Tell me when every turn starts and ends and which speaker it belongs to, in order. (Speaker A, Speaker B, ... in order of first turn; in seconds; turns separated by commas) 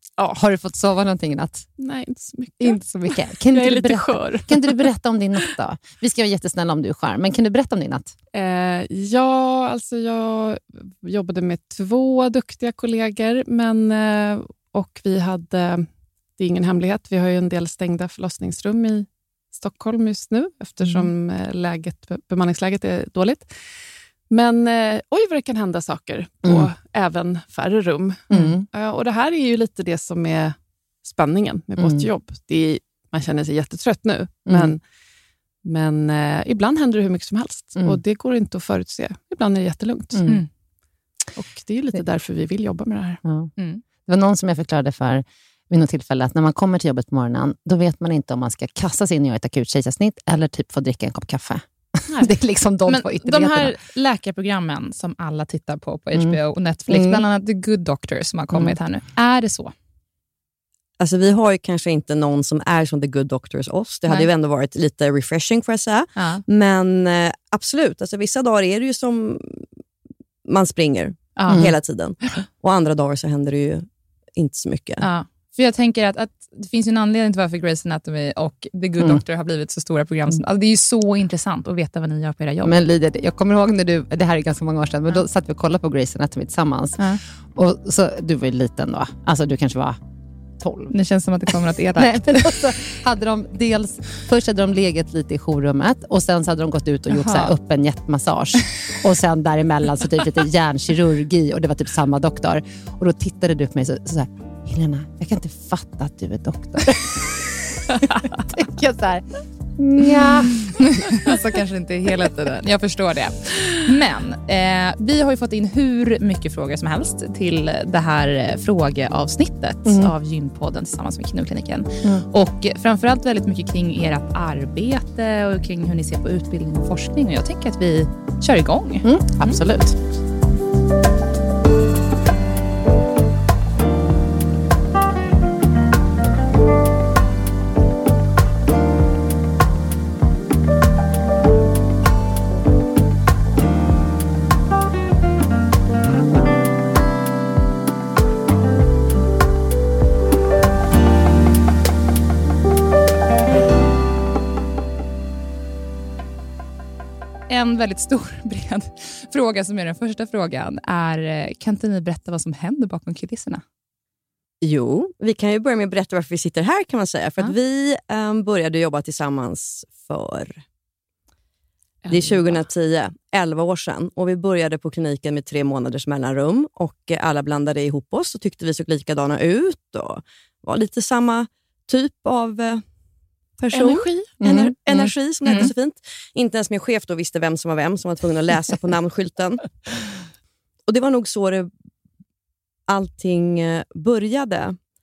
Speaker A: 0.3-1.7, Speaker B: 1.8-4.9, Speaker A: 2.6-8.1, Speaker B: 8.3-15.9, Speaker B: 16.4-34.8, Speaker A: 20.8-21.1, Speaker A: 28.3-28.6, Speaker A: 31.8-32.1, Speaker A: 34.5-34.7, Speaker B: 35.6-40.3, Speaker A: 40.1-40.4, Speaker B: 41.4-43.2, Speaker A: 43.2-43.5, Speaker C: 43.6-43.8, Speaker A: 44.0-53.8, Speaker C: 52.9-59.7, Speaker A: 56.1-57.2, Speaker A: 58.5-58.8, Speaker D: 61.0-69.6, Speaker C: 66.2-66.4, Speaker D: 70.5-75.0, Speaker C: 71.4-71.7, Speaker A: 71.5-71.7, Speaker C: 75.0-82.8, Speaker A: 82.6-90.0, Speaker A: 90.6-90.9, Speaker C: 90.9-92.6, Speaker A: 91.5-110.7, Speaker C: 97.1-97.5, Speaker C: 110.8-129.6, Speaker A: 119.8-120.1, Speaker A: 129.0-130.0, Speaker C: 157.5-163.6, Speaker D: 164.6-170.6, Speaker B: 172.0-172.7, Speaker D: 172.1-182.8, Speaker D: 183.6-190.0, Speaker B: 183.7-184.3, Speaker A: 184.4-184.8, Speaker C: 185.0-185.7, Speaker D: 190.9-191.7, Speaker D: 192.9-194.8